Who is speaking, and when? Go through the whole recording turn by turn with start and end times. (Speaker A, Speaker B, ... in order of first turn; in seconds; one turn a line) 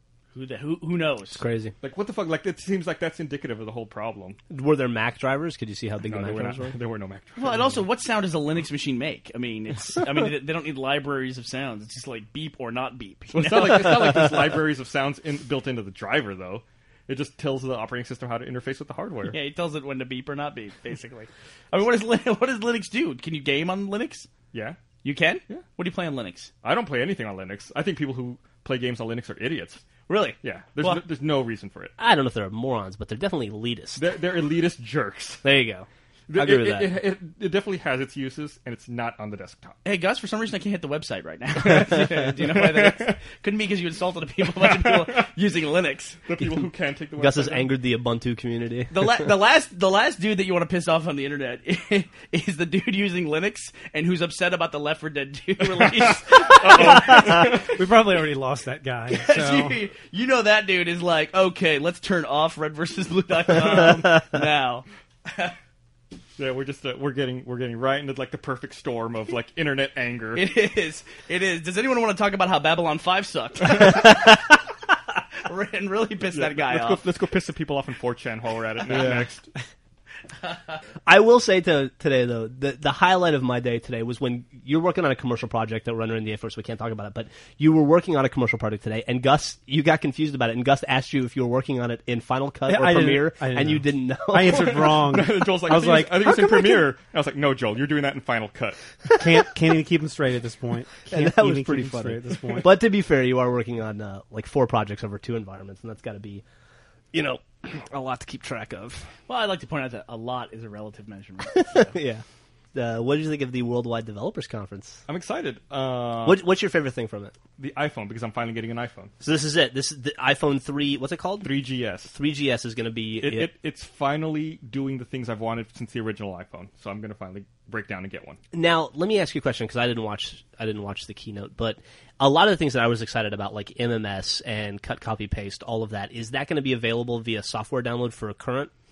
Speaker A: 0.3-1.4
Speaker B: 1.4-1.7
Speaker C: 1.8-4.4
Speaker B: 4.5-6.7
Speaker C: 6.0-7.8
Speaker A: 7.4-14.2
Speaker C: 13.3-19.4
Speaker A: 19.3-24.3
Speaker C: 24.5-24.8
Speaker A: 25.0-26.5
Speaker C: 26.6-29.9
Speaker A: 30.1-31.0
Speaker C: 30.4-31.9
Speaker B: 32.0-34.0
Speaker C: 34.0-35.5
Speaker B: 35.4-37.0
Speaker C: 36.3-39.8
Speaker A: 39.9-46.2
Speaker C: 41.9-43.2
Speaker C: 44.6-45.3
Speaker C: 46.3-47.7
Speaker B: 47.2-49.2
Speaker A: 48.9-57.6
Speaker C: 55.8-57.8
Speaker D: 57.2-59.8
Speaker A: 59.1-65.5
Speaker C: 63.6-64.0
Speaker C: 66.4-70.5
Speaker A: 70.3-74.5
Speaker A: 75.4-77.0
Speaker C: 76.3-79.5
Speaker B: 78.9-79.2
Speaker A: 80.5-80.8
Speaker B: 81.1-95.1
Speaker D: 92.7-96.7
Speaker C: 94.5-98.9
Speaker D: 99.2-102.7
Speaker B: 101.1-106.4
Speaker B: 107.1-109.1
Speaker A: 109.3-111.9
Speaker B: 111.5-115.0
Speaker C: 115.1-116.5
Speaker B: 116.2-117.3
Speaker C: 117.6-119.1
Speaker B: 119.2-121.5
Speaker C: 121.4-122.1
Speaker B: 122.1-123.5
Speaker C: 123.2-128.4
Speaker B: 128.5-138.7